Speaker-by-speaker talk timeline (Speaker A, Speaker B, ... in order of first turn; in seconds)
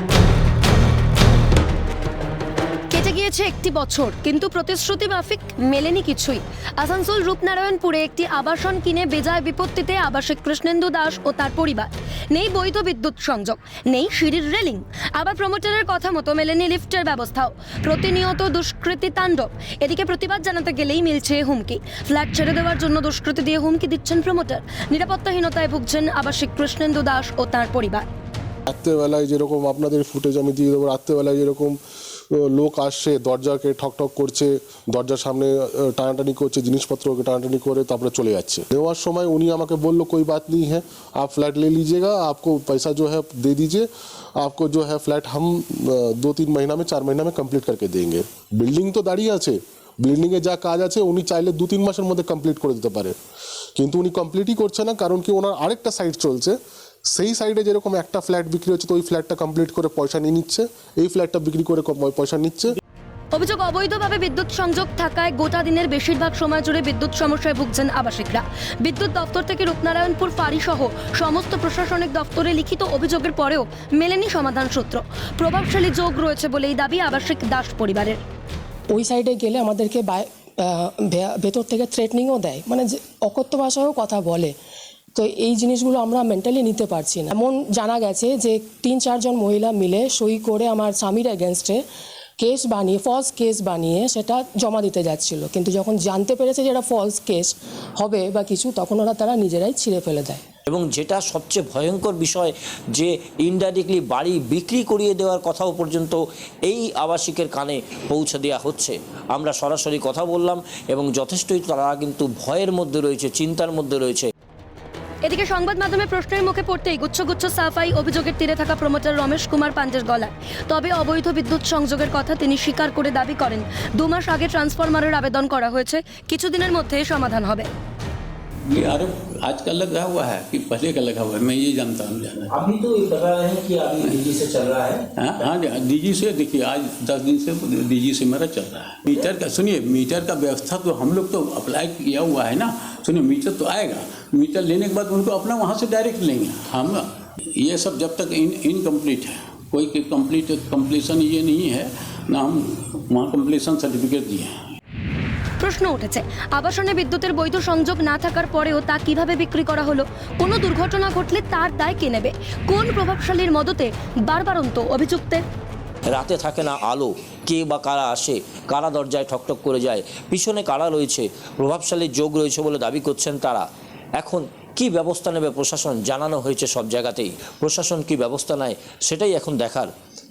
Speaker A: 2.9-28.1, 63.3-78.2, 115.2-127.7, 155.6-165.4
Speaker B: 28.7-31.8, 32.3-53.2, 53.8-56.6, 57.1-62.8
Speaker C: 78.9-84.6, 85.2-91.8, 92.4-100.4
Speaker D: 100.7-114.3, 132.5-135.0, 166.1-173.7, 174.2-179.9
Speaker E: 128.7-132.6, 135.2-154.8